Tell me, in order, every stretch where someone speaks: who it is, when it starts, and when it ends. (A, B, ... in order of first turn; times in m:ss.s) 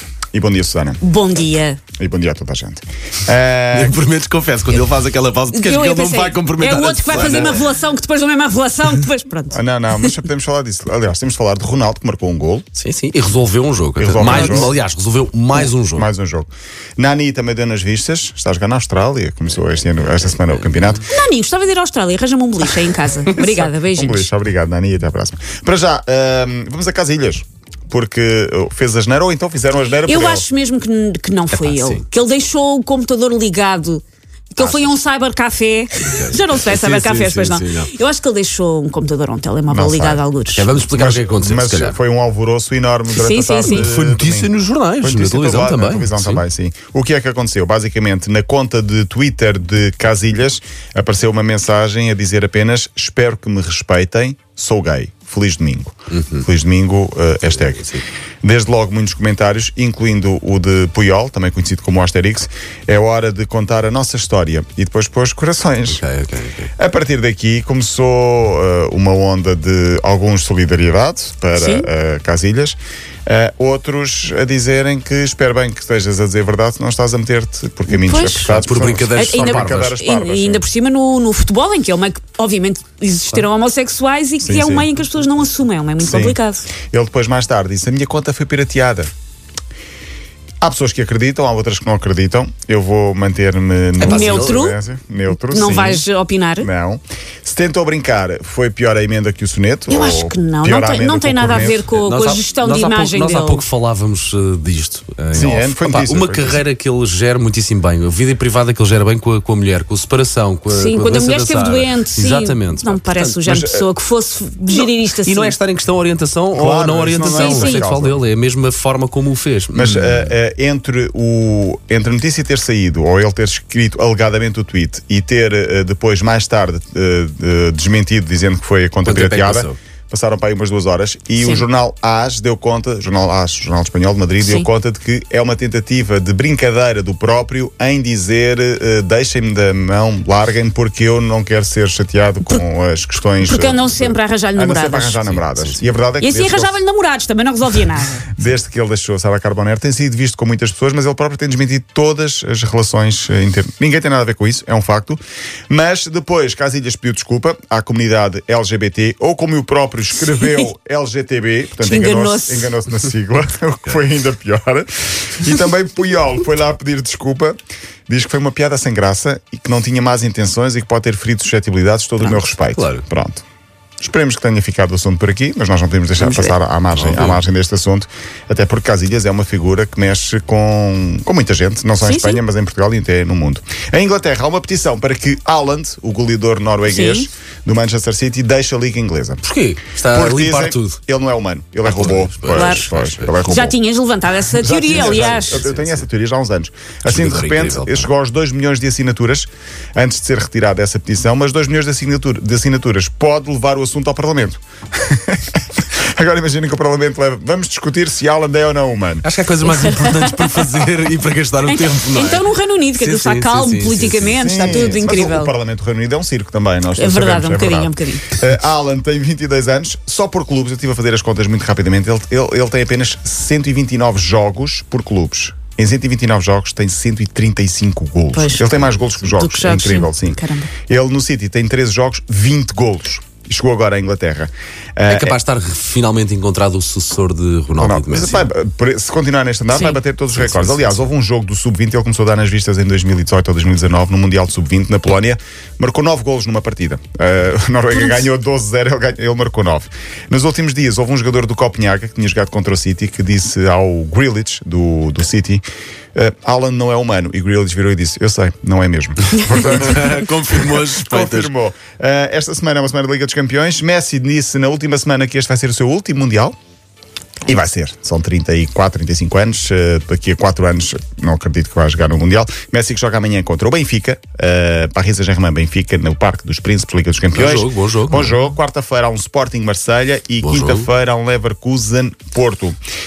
0:00.3-0:01.0 A
0:01.0-0:01.8 B
0:02.0-0:04.0 A
0:03.7-0:07.6 C
0:05.5-0:10.2 B
0:07.1-0:07.7 A
0:09.5-0:12.7 A
0:12.7-0:16.1 C
0:14.0-0:14.7 A
0:14.2-0:14.7 B
0:15.6-0:21.0 A
0:19.9-0:21.0 C
0:21.0-0:24.3 B
0:23.8-0:30.5 A
0:30.0-0:40.7 B
0:31.5-0:32.0 C
0:34.6-0:35.0 A
0:36.0-0:37.9 C
0:39.7-0:40.2 A
0:40.5-0:42.0 C
0:40.9-0:57.9 A
0:43.1-0:43.9 B
0:43.6-0:46.4 C
0:56.1-0:56.4 C
0:57.5-0:58.0 C
0:58.4-1:06.0 A
1:05.9-1:06.7 C
1:06.8-1:20.6 A
1:11.6-1:11.9 B
1:17.9-1:18.5 B
1:18.4-1:20.0 C
1:19.1-1:26.7 B
1:24.4-1:24.9 A
1:26.0-1:26.4 A
1:26.9-1:29.1 A
1:30.6-1:36.0 A
1:34.0-1:34.6 C
1:34.0-1:34.8 B
1:35.3-1:36.7 B
1:36.6-1:41.9 A
1:39.9-1:43.6 B
1:41.9-1:53.6 C
1:45.3-1:46.6 A
1:50.7-1:55.6 B
1:53.5-1:53.8 A
1:54.7-2:00.3 C
1:56.5-1:58.2 A
1:57.2-1:57.9 B
1:59.7-2:26.7 A
2:09.0-2:09.8 C
2:11.4-2:11.6 B
2:14.4-2:14.7 B
2:23.4-2:25.3 B
2:25.2-2:25.9 C
2:26.2-2:28.3 B
2:28.3-2:53.4 A
2:41.8-2:42.7 B
2:52.2-2:53.0 C
2:54.0-3:09.4 A
2:56.2-2:56.5 B
2:56.9-2:57.4 C
3:02.0-3:02.4 B
3:06.8-3:07.3 B
3:09.4-3:11.0 C
3:10.0-3:13.8 A
3:11.8-3:13.4 C
3:12.5-3:12.9 B
3:13.4-3:15.6 B
3:14.5-3:29.2 A
3:14.9-3:16.0 C
3:17.0-3:18.1 C
3:29.2-3:34.4 C
3:29.6-3:30.8 B
3:31.6-3:35.5 B
3:34.4-3:55.4 A
3:37.0-3:38.3 B
3:48.3-3:50.7 B
3:55.1-3:58.5 C
3:57.8-4:15.6 A
3:59.7-4:00.0 B
4:00.3-4:01.1 C
4:07.9-4:08.2 B
4:16.1-4:26.5 A
4:19.4-4:21.5 C
4:27.4-4:42.8 A
4:37.3-4:38.3 C
4:40.4-4:40.9 C